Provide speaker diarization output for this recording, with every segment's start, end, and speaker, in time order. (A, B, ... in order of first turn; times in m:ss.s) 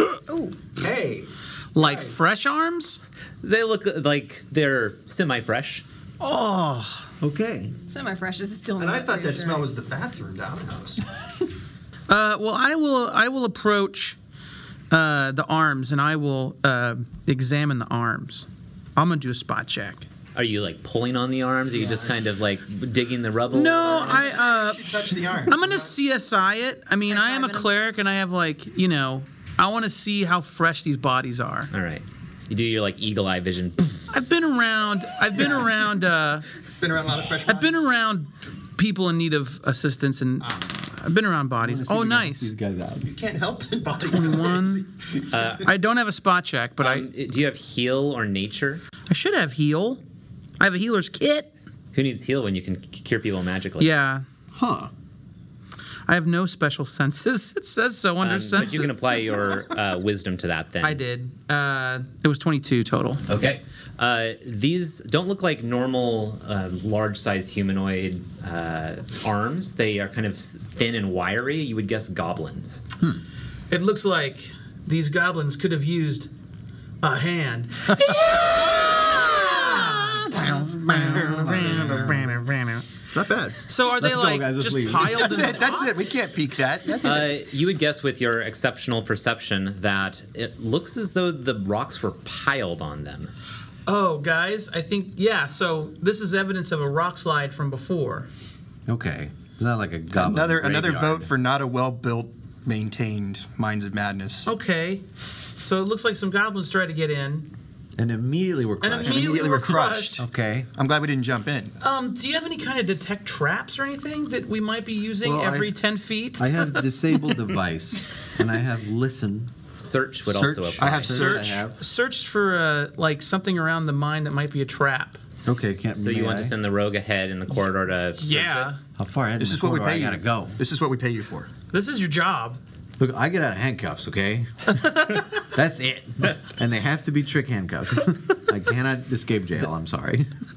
0:00.3-0:00.6 A
0:00.8-0:02.2 B
0:01.8-0:03.0 C
0:03.4-0:05.8 D
0:06.2-0:07.1 C
0:07.2-0:07.8 E
0:07.9-0:09.7 A
0:08.8-0:11.0 B
0:12.1-0:14.2 C
0:14.9-0:20.0 C
0:20.4-0:24.2 D
0:21.8-0:22.1 B
0:23.5-0:31.7 C
0:23.8-0:26.0 B
0:23.9-0:24.5 A
0:27.1-0:27.7 A
0:31.7-0:34.1 D
0:34.1-0:36.5 C
0:35.3-0:35.7 B
0:36.8-0:37.8 B
0:37.5-0:42.5 C
0:41.6-0:43.2 E
0:43.0-0:45.5 B
0:44.0-0:44.9 C
0:45.3-0:45.7 D
0:45.6-0:47.1 C
0:46.8-0:48.8 D
0:49.1-0:50.0 C
0:50.6-0:51.5 C
0:51.9-0:53.9 D
0:53.8-0:54.2 C
0:54.5-0:54.9 E
0:56.1-0:59.0 C
0:58.2-1:01.0 D
1:00.8-1:03.2 C
1:03.3-1:12.8 D
1:13.7-1:16.3 C
1:17.0-1:20.3 C
1:19.4-1:22.3 E
1:20.9-1:22.9 C
1:20.9-1:22.3 B
1:23.1-1:23.6 B
1:23.7-1:26.1 C
1:24.0-1:25.6 E
1:25.1-1:27.4 B
1:27.0-1:33.3 D
1:33.9-1:38.3 C
1:38.9-1:41.3 E
1:40.2-1:44.5 B
1:44.5-1:45.0 C
1:45.6-1:47.5 C
1:48.0-1:49.5 E
1:48.8-1:50.2 C
1:49.0-1:51.8 B
1:50.2-1:50.7 E
1:51.8-1:56.9 C
1:55.2-1:55.8 E
1:56.4-1:59.5 E
1:59.8-2:01.3 D
2:00.3-2:01.6 B
2:00.7-2:01.8 E
2:01.1-2:05.2 C
2:05.5-2:06.6 E
2:05.8-2:08.8 D
2:08.2-2:08.8 C
2:09.0-2:10.6 E
2:09.4-2:11.5 B
2:11.7-2:12.6 C
2:13.0-2:14.8 E
2:14.7-2:15.3 C
2:15.4-2:20.3 E